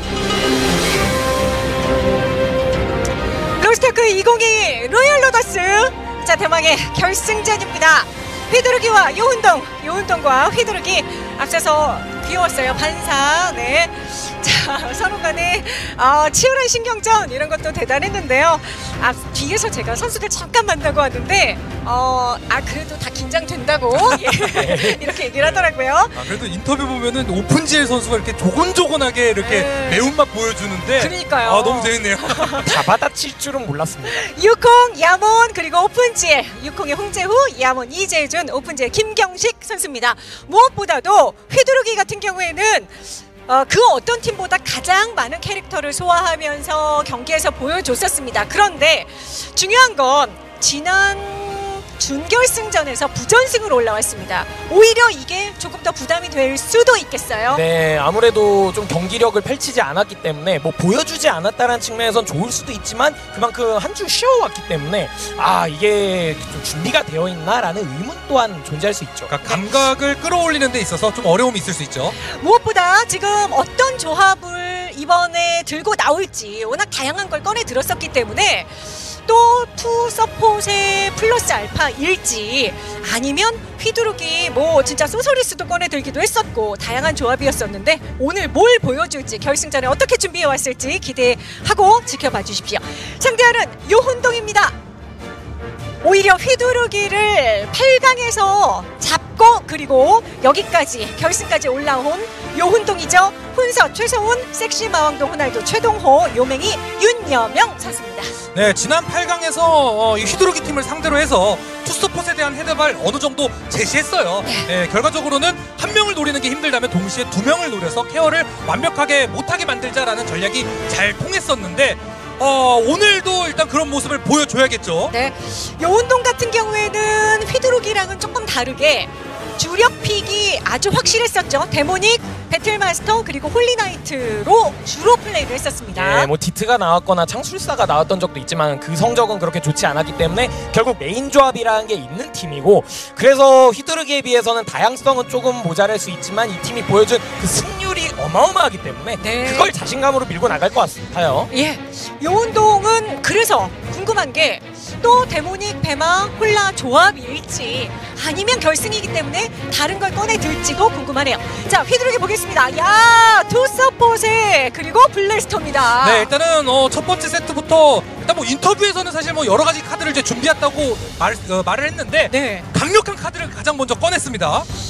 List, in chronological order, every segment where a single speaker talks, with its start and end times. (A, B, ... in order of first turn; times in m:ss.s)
0:03.6-0:26.3 A
0:23.9-0:24.4 B
0:24.5-0:25.2 C
0:26.1-0:32.6 B
0:29.4-0:30.1 A
0:31.0-0:32.7 A
0:32.6-0:34.2 C
0:34.1-0:57.6 A
0:57.5-1:09.3 C
1:09.3-1:12.2 B
1:12.2-1:34.7 A
1:36.0-1:48.4 A
1:48.5-2:05.1 B
1:54.4-1:54.7 A
2:05.1-2:16.3 A
2:15.9-2:31.5 C
2:29.2-2:29.7 A
2:31.5-2:46.3 A
2:46.0-2:54.7 B
2:52.3-2:52.6 A